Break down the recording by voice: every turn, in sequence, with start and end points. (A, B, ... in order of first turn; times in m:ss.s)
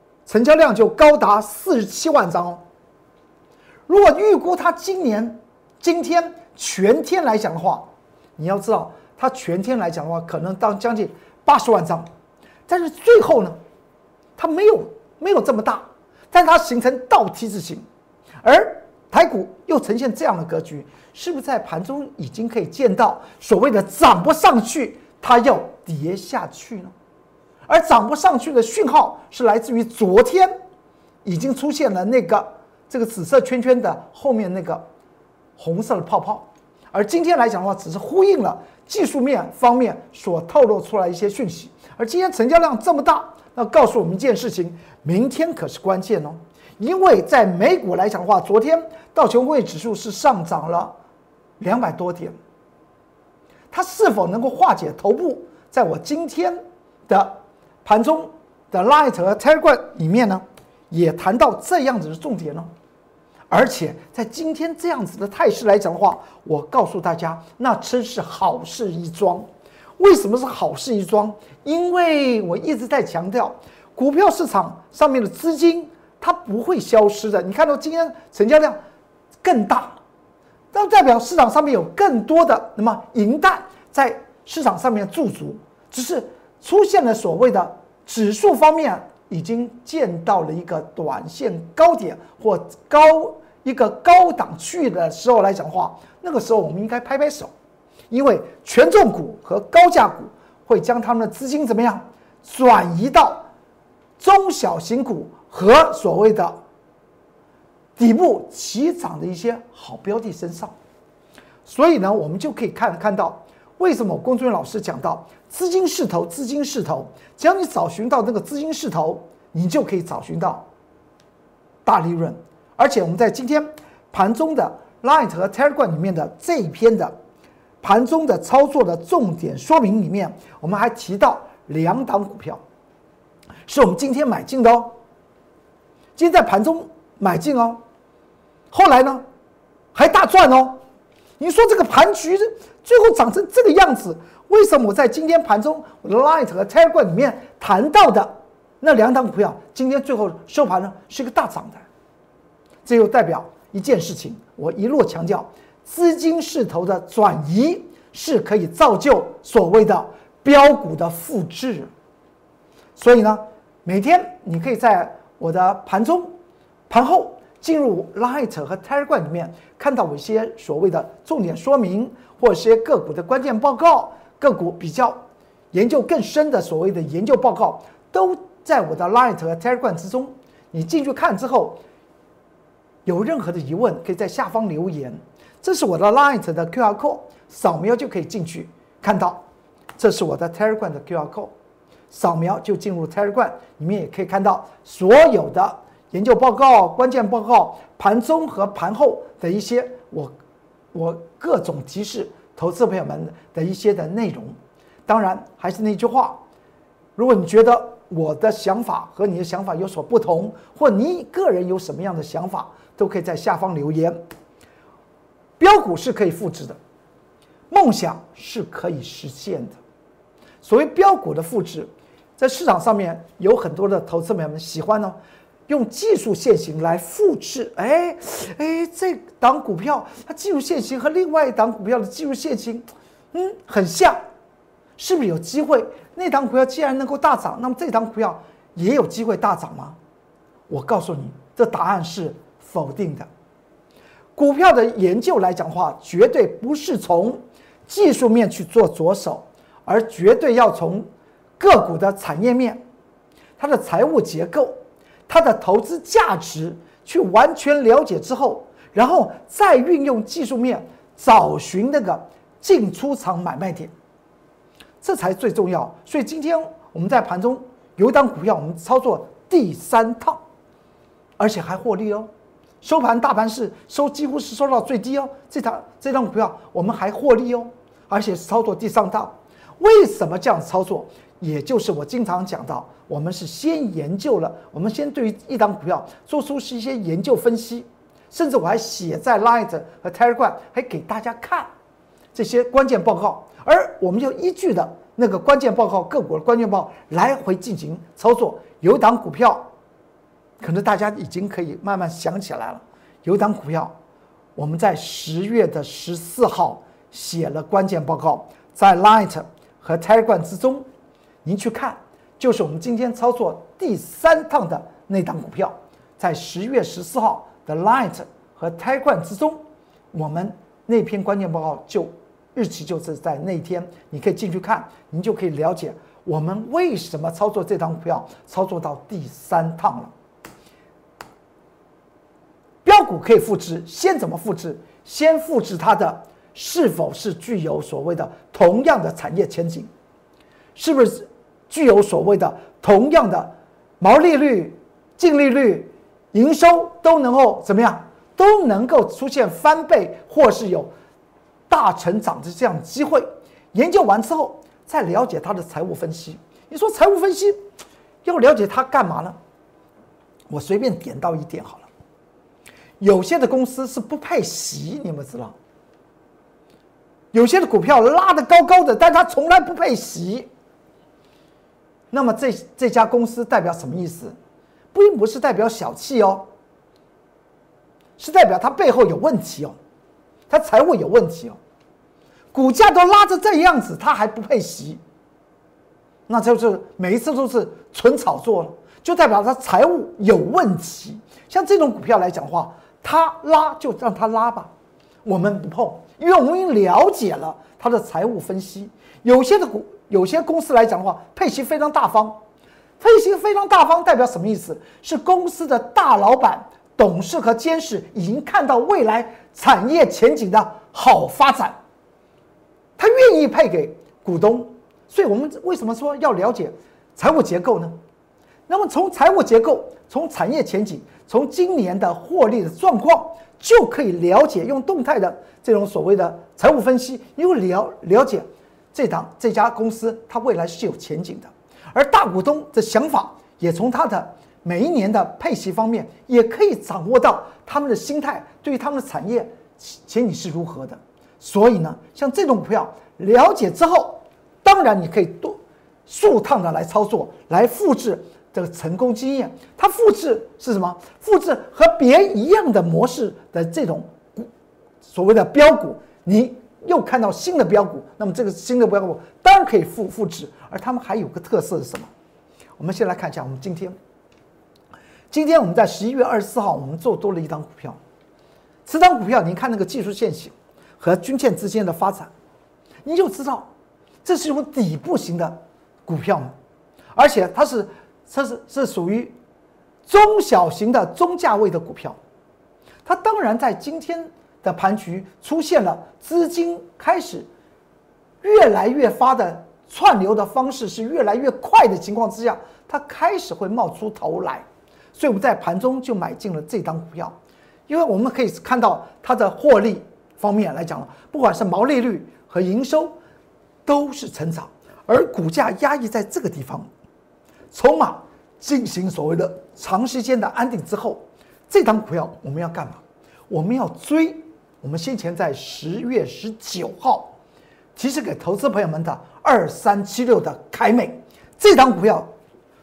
0:00.3-0:02.6 A
0:03.9-0:12.1 A
0:12.7-0:13.6 A
0:14.4-0:17.8 A
0:18.4-0:26.9 A
0:27.7-0:30.5 A
0:31.2-0:34.9 A
0:35.6-0:51.0 A
0:51.6-0:52.4 A
0:53.7-1:02.7 A
1:03.5-1:18.8 A
1:19.4-1:20.0 A
1:20.7-1:37.5 A
1:38.1-1:43.5 A
1:44.2-1:46.6 A
1:48.0-1:50.8 A
1:51.7-2:00.7 A
2:01.8-2:07.2 A
2:07.8-2:12.6 A
2:13.7-2:15.0 A
2:16.2-2:17.8 A
2:18.7-2:19.2 A
2:19.9-2:20.8 A
2:21.4-2:31.8 A
2:32.8-2:41.9 A
2:43.0-2:46.4 A
2:46.9-3:01.8 A
3:03.1-3:09.4 A
3:10.0-3:11.5 A
3:12.1-3:20.3 A
3:20.9-3:24.6 A
3:25.1-3:26.4 A
3:27.2-3:34.2 A
3:35.6-3:36.8 A
3:37.7-3:39.8 A
3:40.6-3:45.2 A
3:45.7-3:54.2 A
3:55.0-4:00.0 A
4:00.7-4:03.3 A
4:04.4-4:11.1 A
4:11.6-4:12.8 A
4:13.6-4:23.9 A
4:25.0-4:30.4 A
4:31.4-4:32.3 A
4:32.8-4:51.7 A
4:52.3-4:59.7 A
5:00.6-5:04.0 A
5:04.6-5:10.9 A
5:11.4-5:30.1 A
5:32.8-5:39.9 A
5:40.8-5:50.9 A
5:51.7-5:57.6 A
5:58.2-5:59.4 A
6:00.5-6:01.9 A
6:03.0-6:05.5 A
6:07.3-6:10.5 A
6:12.1-6:14.4 A
6:14.9-6:16.5 A
6:18.2-6:19.8 A
6:20.5-6:21.6 A
6:22.5-6:25.0 A
6:26.3-6:34.7 A
6:35.2-6:42.4 A
6:43.0-6:51.8 A
6:53.0-6:58.0 A
6:58.7-7:34.5 A
7:35.0-7:42.1 A
7:42.8-7:44.0 A
7:45.3-7:48.0 A
7:48.9-7:52.3 A
7:53.0-7:53.7 A
7:54.2-7:56.5 A
7:57.2-7:59.4 A
8:00.1-8:02.2 A
8:03.1-8:07.5 A
8:08.4-8:17.4 A
8:17.9-8:23.2 A
8:23.9-8:26.9 A
8:27.7-8:37.3 A
8:38.0-8:42.3 A